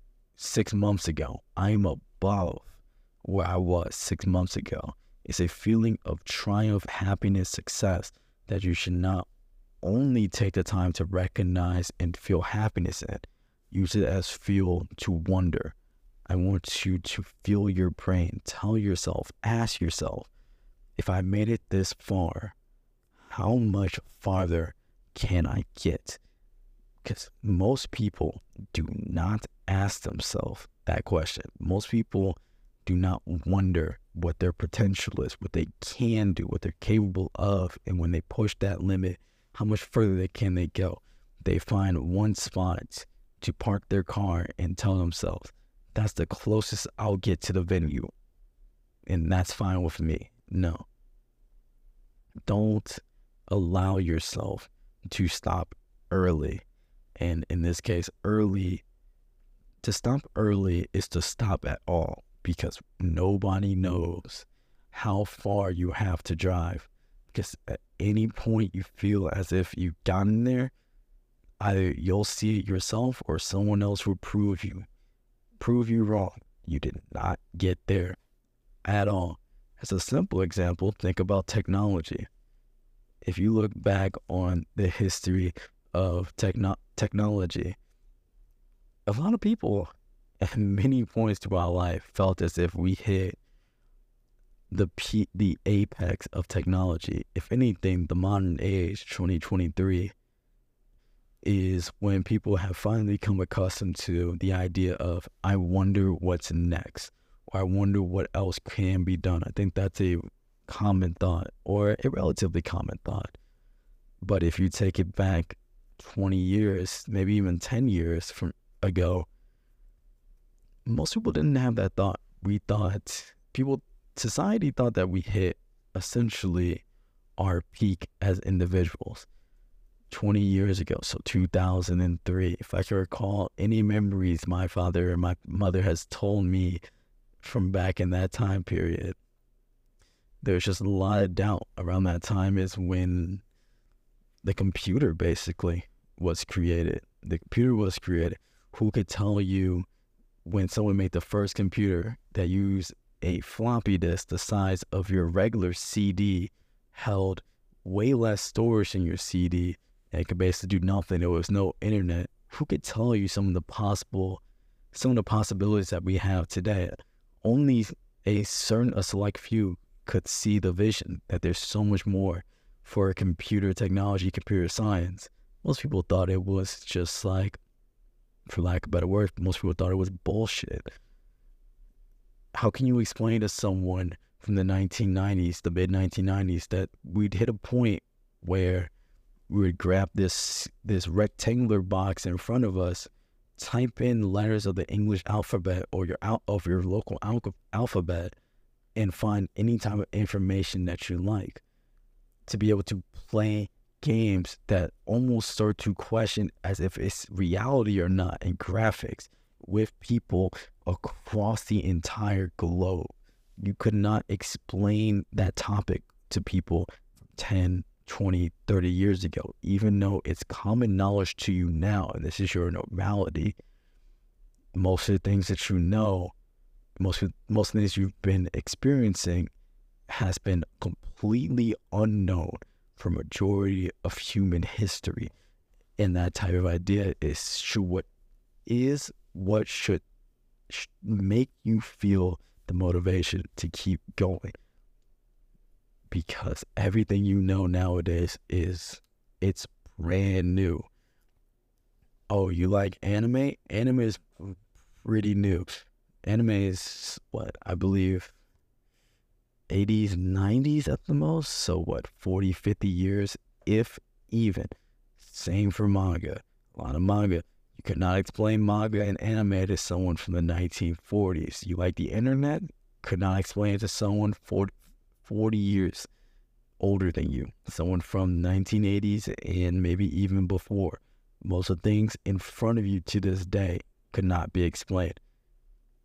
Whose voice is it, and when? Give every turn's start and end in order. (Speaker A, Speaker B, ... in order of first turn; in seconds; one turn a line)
Speaker A: 0.4-9.3
Speaker A: 9.8-15.7
Speaker A: 16.3-20.3
Speaker A: 20.9-22.5
Speaker A: 23.3-26.2
Speaker A: 27.0-48.1
Speaker A: 49.0-50.9
Speaker A: 52.5-56.6
Speaker A: 57.2-58.8
Speaker A: 59.8-70.7
Speaker A: 71.6-74.8
Speaker A: 75.6-78.2
Speaker A: 78.8-82.3
Speaker A: 83.2-87.8
Speaker A: 89.1-93.3
Speaker A: 94.7-100.1
Speaker A: 101.4-113.4
Speaker A: 114.2-119.3
Speaker A: 120.8-126.8
Speaker A: 127.4-129.3
Speaker A: 130.1-136.8
Speaker A: 137.4-139.2
Speaker A: 140.4-143.4
Speaker A: 144.4-149.8
Speaker A: 150.4-164.4
Speaker A: 164.9-177.6
Speaker A: 178.5-180.9
Speaker A: 182.5-188.9
Speaker A: 189.5-198.3
Speaker A: 198.9-201.6
Speaker A: 202.5-223.6
Speaker A: 224.7-226.3
Speaker A: 227.0-229.5
Speaker A: 230.1-235.3
Speaker A: 236.0-238.1
Speaker A: 238.7-240.0
Speaker A: 240.7-244.5
Speaker A: 246.1-250.9
Speaker A: 252.3-258.3
Speaker A: 259.7-276.1
Speaker A: 276.8-285.2